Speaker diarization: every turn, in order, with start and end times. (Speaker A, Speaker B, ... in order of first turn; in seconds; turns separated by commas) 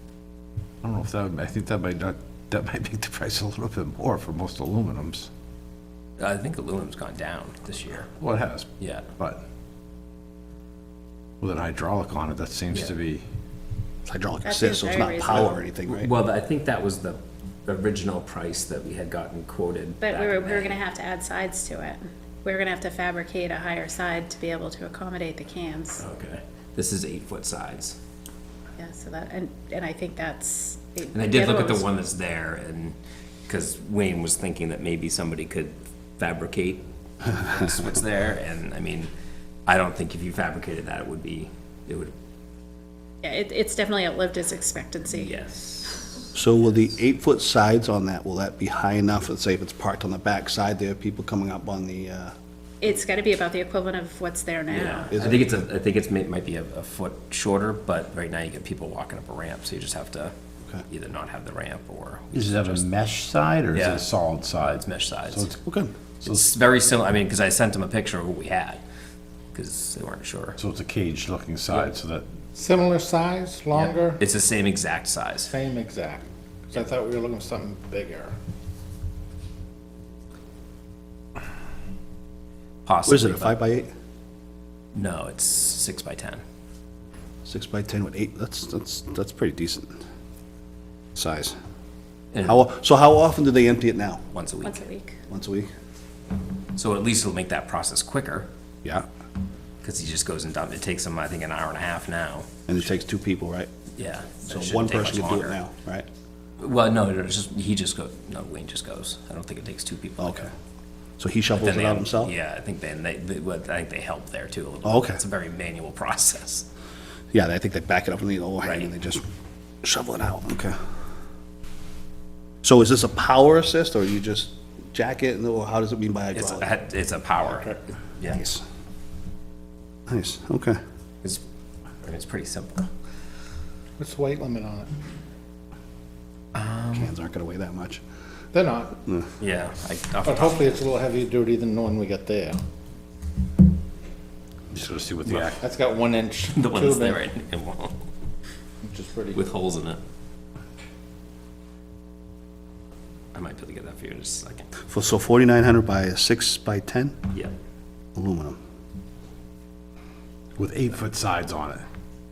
Speaker A: 0.8-5.3, Speaker B: 6.2-8.1, Speaker A: 8.2-9.4, Speaker B: 8.8-9.1, Speaker A: 11.4-13.2, Speaker C: 14.1-16.1, Speaker D: 14.4-15.6, Speaker B: 15.9-20.8, Speaker D: 20.0-26.0, Speaker B: 26.0-28.0, Speaker D: 28.8-31.9, Speaker B: 31.1-39.1, Speaker B: 39.6-42.1, Speaker D: 43.2-45.3, Speaker B: 45.1-46.3, Speaker C: 46.3-52.3, Speaker D: 52.8-55.1, Speaker B: 54.7-60.3, Speaker C: 55.1-55.7, Speaker B: 60.9-62.8, Speaker A: 62.3-65.6, Speaker B: 63.7-64.1, Speaker B: 64.6-65.5, Speaker C: 65.6-65.9, Speaker B: 66.2-68.8, Speaker B: 69.5-70.6, Speaker A: 70.6-72.2, Speaker E: 72.5-74.2, Speaker B: 73.7-75.5, Speaker E: 75.5-78.3, Speaker B: 82.8-83.6, Speaker C: 83.1-83.9, Speaker B: 84.9-86.4, Speaker C: 87.4-90.0, Speaker C: 91.1-91.5, Speaker B: 92.3-92.6, Speaker C: 92.4-94.2, Speaker B: 94.3-94.8, Speaker D: 94.6-95.2, Speaker C: 95.3-95.7, Speaker B: 96.8-98.5, Speaker B: 99.8-102.6, Speaker C: 102.7-103.7, Speaker B: 104.0-105.6, Speaker C: 104.5-106.1, Speaker B: 106.6-110.5, Speaker C: 110.2-110.5, Speaker C: 111.2-112.3, Speaker B: 111.6-116.7, Speaker C: 114.8-115.2, Speaker C: 117.3-119.2, Speaker B: 118.6-118.9, Speaker C: 119.8-120.8, Speaker C: 122.6-126.7, Speaker B: 126.3-128.4, Speaker C: 128.3-128.6, Speaker C: 130.1-130.8, Speaker B: 132.0-132.9, Speaker E: 134.0-134.9, Speaker B: 136.5-137.1, Speaker C: 136.9-138.0, Speaker E: 138.5-139.0, Speaker B: 139.4-140.8, Speaker E: 140.2-142.6, Speaker A: 144.7-145.6, Speaker E: 145.3-147.2, Speaker B: 146.5-147.9, Speaker E: 148.8-149.4, Speaker B: 149.3-150.0, Speaker B: 153.3-154.7, Speaker C: 154.9-157.2, Speaker C: 158.1-158.6, Speaker A: 160.6-161.8